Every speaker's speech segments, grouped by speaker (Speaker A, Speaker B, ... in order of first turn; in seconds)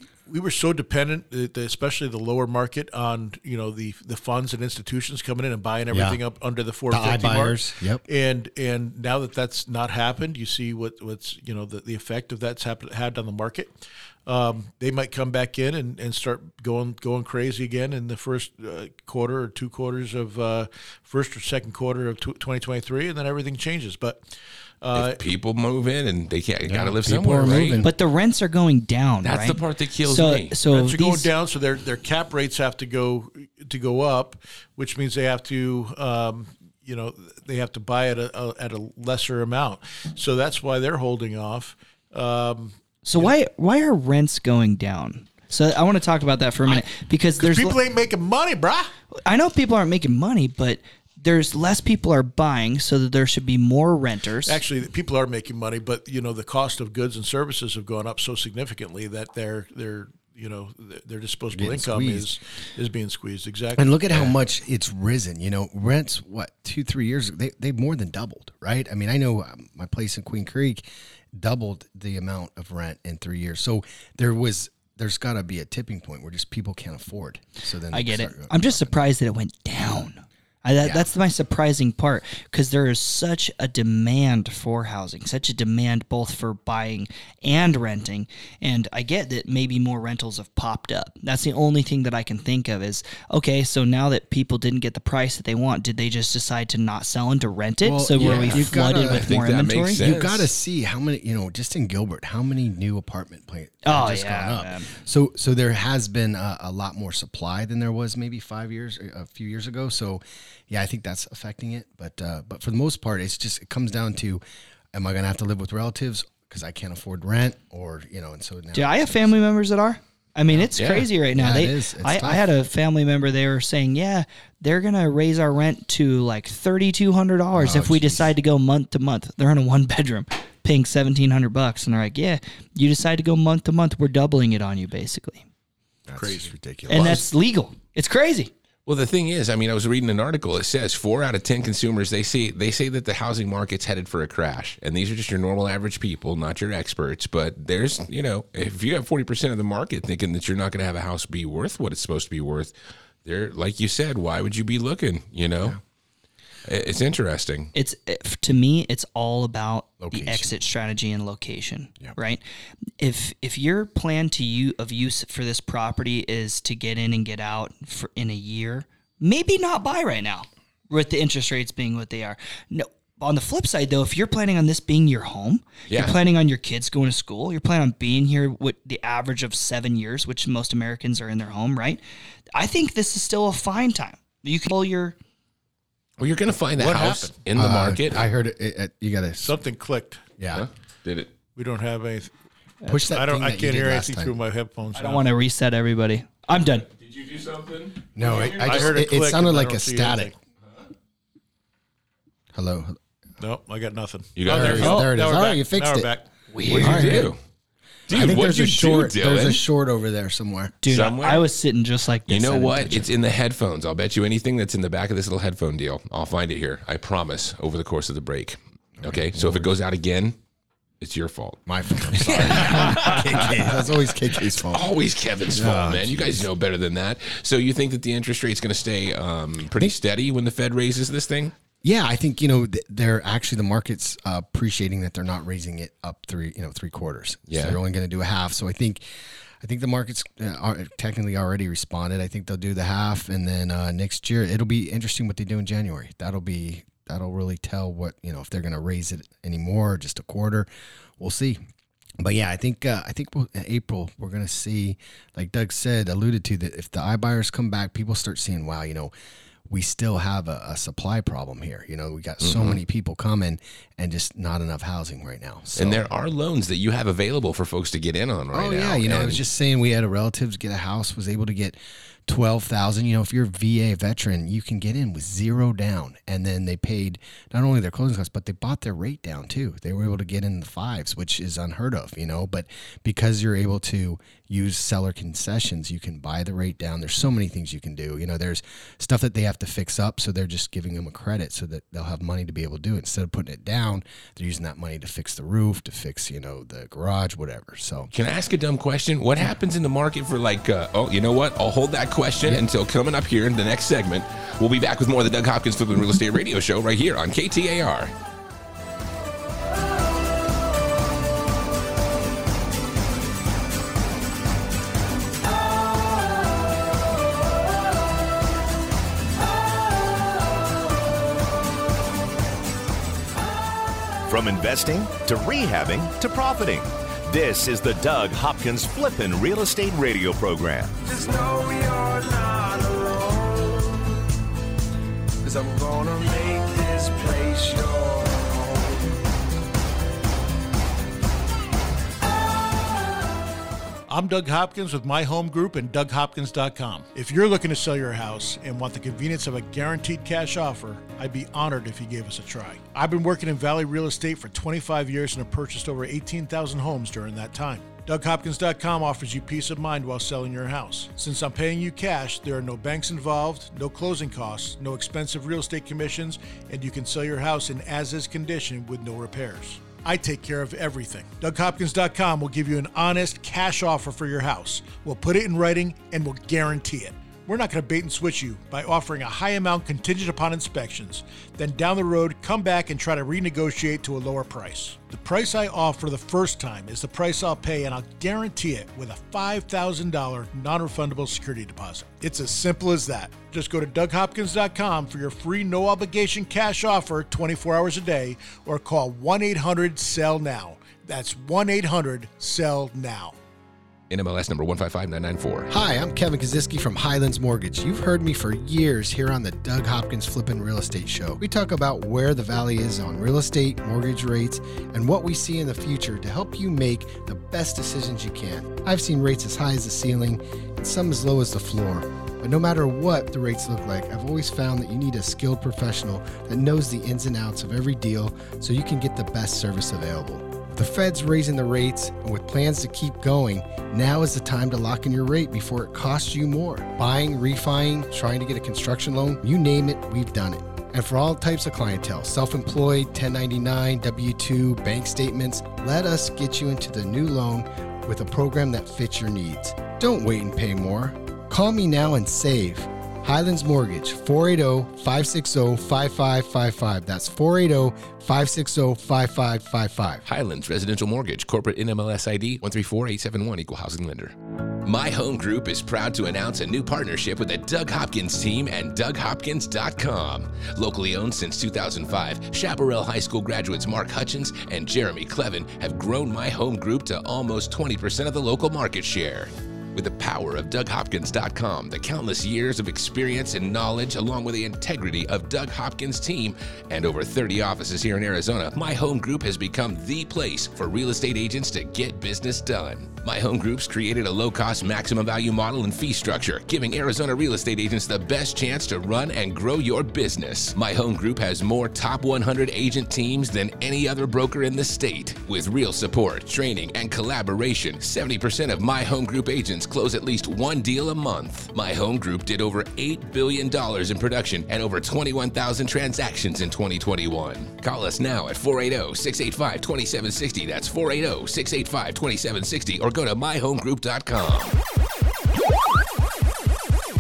Speaker A: 0.3-13.7, 14.3-24.2, 24.8-25.3, 30.7-43.4, 46.7-48.9, 54.5-64.3, 136.2-136.5, 186.8-187.3, 189.4-190.2, 191.6-192.3, 192.9-195.2, 198.3-200.3, 203.4-207.3, 344.1-403.4
Speaker B: 5.9-6.2, 6.9-8.1, 26.6-27.9, 61.5-62.4, 63.8-79.0, 80.8-81.1, 97.8-99.4, 99.9-114.4, 114.9-119.4, 121.3-122.5, 127.5-128.3, 136.1-137.3, 160.0-160.5, 187.6-189.6, 190.4-190.7, 192.9-194.4, 198.2-200.3, 202.5-203.0, 204.5-206.1, 206.7-207.4, 208.1-210.8, 219.0-219.7, 221.7-224.9, 225.5-226.5, 231.8-239.0, 239.6-250.7, 251.2-251.6, 252.2-259.1, 259.7-266.1, 268.5-298.1, 405.7-460.3
Speaker C: 24.9-27.8, 29.2-30.6, 98.2-100.5, 120.8-121.1, 138.9-152.7, 153.2-155.8, 156.7-157.7, 175.9-176.2, 186.2-188.3, 190.5-191.3, 197.0-199.0, 204.4-205.1, 206.6-207.4, 208.1-209.6, 210.9-211.5, 212.3-220.3, 221.0-231.5, 237.5-237.8, 262.4-262.8, 265.8-269.4, 298.1-308.1, 404.1-405.7, 460.3-524.8
Speaker D: 27.8-31.3, 43.0-47.8, 49.3-54.6, 77.9-100.1, 103.8-104.9, 118.7-135.4, 136.9-138.5, 157.7-162.4, 163.0-182.0, 182.5-185.2, 194.9-196.9, 210.8-213.1
Speaker E: 324.3-331.0
Speaker F: 331.1-334.1, 335.4-339.2